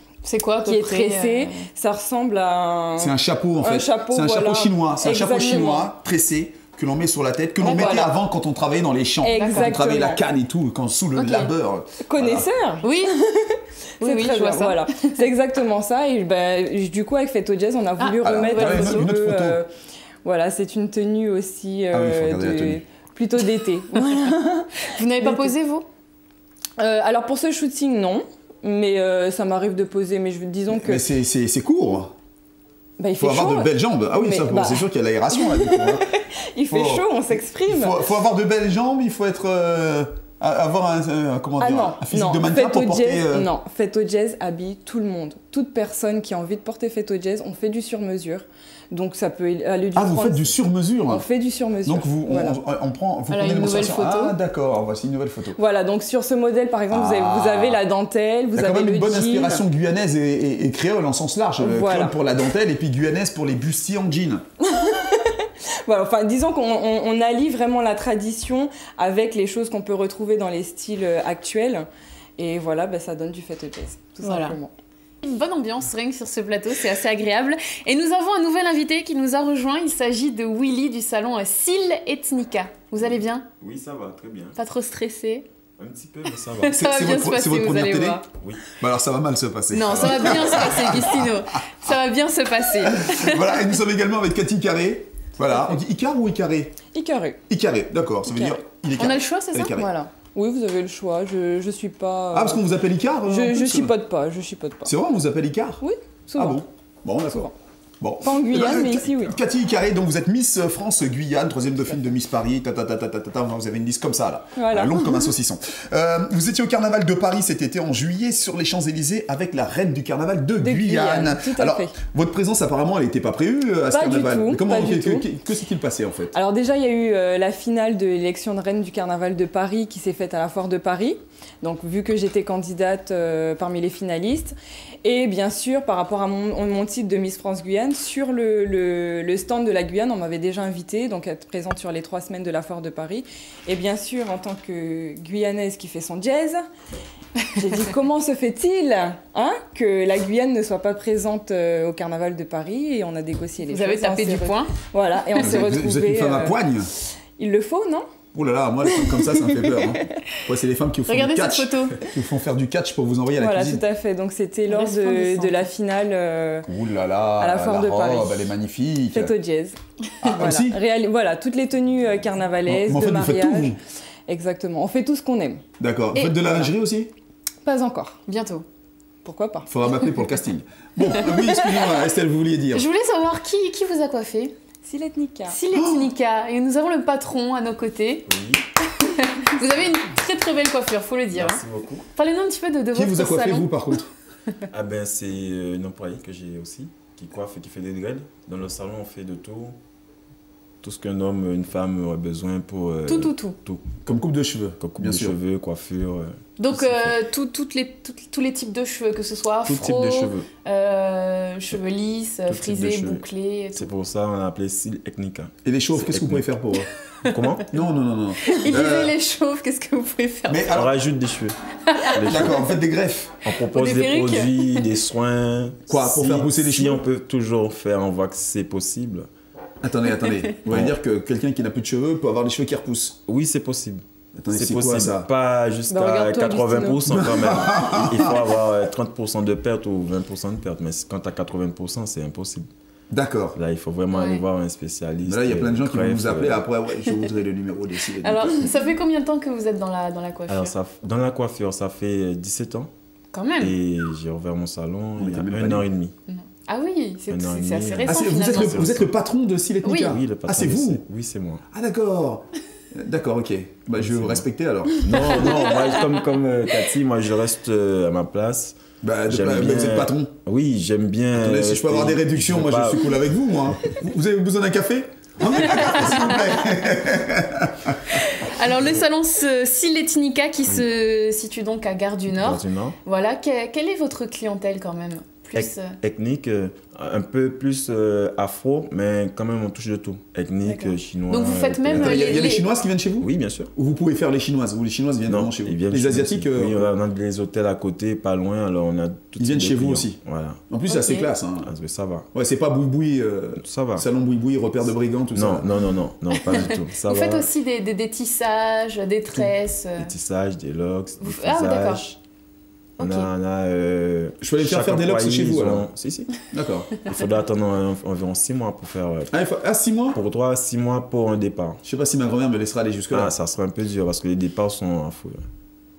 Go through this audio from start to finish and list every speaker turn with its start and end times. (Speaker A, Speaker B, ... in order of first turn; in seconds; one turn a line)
Speaker A: 0.2-1.7
Speaker B: 0.6-5.9
Speaker C: 3.0-12.5
Speaker A: 5.4-5.7
Speaker A: 7.6-8.0
Speaker B: 7.6-8.1
Speaker B: 9.2-10.2
Speaker A: 9.3-9.8
Speaker A: 11.1-11.5
Speaker B: 12.0-19.7
Speaker A: 12.8-13.1
Speaker A: 14.0-15.2
Speaker A: 18.0-19.1
Speaker C: 18.2-19.6
Speaker B: 20.2-25.5
Speaker C: 21.9-22.8
Speaker A: 24.8-25.9
Speaker B: 26.8-31.1
Speaker C: 30.7-32.1
Speaker B: 33.0-38.0
Speaker C: 33.1-36.1
Speaker C: 36.7-43.5
Speaker B: 41.6-50.5
Speaker C: 49.9-51.2
Speaker B: 51.1-52.6
Speaker C: 51.9-55.6
Speaker A: 53.3-54.4
Speaker B: 55.5-59.6
Speaker C: 56.9-57.8
Speaker C: 58.5-64.4
Speaker B: 61.6-62.1
Speaker B: 64.6-71.9
Speaker B: 72.4-74.7
Speaker A: 74.2-74.6
Speaker A: 75.2-83.5
Speaker D: 83.6-84.6
Speaker A: 84.5-85.5
Speaker D: 85.8-86.8
Speaker A: 86.6-88.3
Speaker C: 86.7-88.2
Speaker D: 88.3-88.7
Speaker C: 88.8-91.3
Speaker A: 89.7-93.7
Speaker C: 92.8-96.8
Speaker B: 96.9-97.4
Speaker C: 97.5-99.9
Speaker A: 98.4-99.8
Speaker B: 99.7-102.6
Speaker C: 102.3-103.9
Speaker B: 103.2-104.9
Speaker C: 104.8-105.8
Speaker B: 105.8-106.6
Speaker C: 106.3-107.5
Speaker C: 108.0-126.3
Speaker B: 108.2-109.4
Speaker B: 114.5-115.1
Speaker B: 120.6-121.9
Speaker B: 123.9-125.2
Speaker B: 126.3-146.6
Speaker B: 147.5-156.6
Speaker A: 153.6-154.7
Speaker C: 155.3-156.9
Speaker B: 157.4-158.0
Speaker C: 158.3-163.8
Speaker B: 158.8-160.2
Speaker A: 161.1-162.1
Speaker B: 163.3-166.7
Speaker A: 164.7-165.7
Speaker C: 166.7-169.3
Speaker B: 167.4-168.5
Speaker B: 169.1-175.6
Speaker C: 170.2-170.8
Speaker C: 172.7-173.8
Speaker C: 175.8-177.1
Speaker A: 176.1-176.5
Speaker B: 177.6-178.2
Speaker A: 178.2-178.6
Speaker B: 179.2-179.7
Speaker C: 179.7-182.9
Speaker A: 181.1-182.0
Speaker A: 182.7-184.5
Speaker B: 184.8-185.6
Speaker A: 185.5-188.3
Speaker C: 185.7-186.1
Speaker D: 188.3-188.6
Speaker A: 188.9-191.6
Speaker D: 191.3-192.0
Speaker A: 192.1-193.8
Speaker C: 192.9-194.1
Speaker D: 194.7-199.8
Speaker D: 200.8-203.8
Speaker A: 203.1-203.6
Speaker C: 204.0-205.3
Speaker D: 204.8-207.2
Speaker A: 206.6-213.9
Speaker D: 209.6-210.5
Speaker D: 212.5-216.5
Speaker C: 215.6-216.9
Speaker D: 217.2-217.7
Speaker C: 217.6-219.2
Speaker A: 218.4-220.7
Speaker C: 220.5-220.9
Speaker D: 220.7-222.6
Speaker A: 221.9-222.7
Speaker C: 222.2-223.5
Speaker D: 223.4-229.3
Speaker A: 223.6-224.9
Speaker C: 225.9-227.0
Speaker C: 229.8-233.2
Speaker D: 230.7-230.9
Speaker D: 233.3-242.7
Speaker C: 234.3-235.3
Speaker B: 235.9-237.0
Speaker C: 237.0-238.4
Speaker C: 243.1-243.6
Speaker D: 243.6-246.6
Speaker A: 244.1-244.4
Speaker C: 245.2-248.6
Speaker A: 247.0-247.3
Speaker A: 248.2-250.7
Speaker D: 250.5-252.9
Speaker A: 253.3-253.7
Speaker D: 253.6-256.1
Speaker C: 255.2-255.8
Speaker A: 256.3-259.0
Speaker D: 257.3-259.1
Speaker C: 258.0-261.0
Speaker A: 259.8-260.2
Speaker D: 260.0-261.6
Speaker C: 261.7-265.7
Speaker D: 263.9-264.4
Speaker D: 265.0-273.2
Speaker A: 265.1-266.1
Speaker C: 269.0-270.3
Speaker C: 271.3-278.5
Speaker A: 275.8-276.6
Speaker A: 278.2-285.9
Speaker D: 282.3-282.9
Speaker D: 285.5-292.4
Speaker A: 290.6-292.7
Speaker C: 291.9-296.9
Speaker D: 293.2-293.7
Speaker D: 295.2-300.6
Speaker C: 299.4-301.7
Speaker A: 300.9-301.3
Speaker D: 301.6-302.2
Speaker C: 302.3-305.7
Speaker D: 303.6-304.1
Speaker D: 305.3-307.5
Speaker A: 306.5-310.1
Speaker D: 310.0-312.0
Speaker A: 311.2-312.1
Speaker A: 313.0-313.3
Speaker D: 313.0-316.4
Speaker C: 314.4-315.9
Speaker C: 316.5-316.9
Speaker D: 317.0-319.3
Speaker C: 319.3-320.2
Speaker D: 320.1-321.8
Speaker C: 321.8-323.3
Speaker D: 323.1-325.4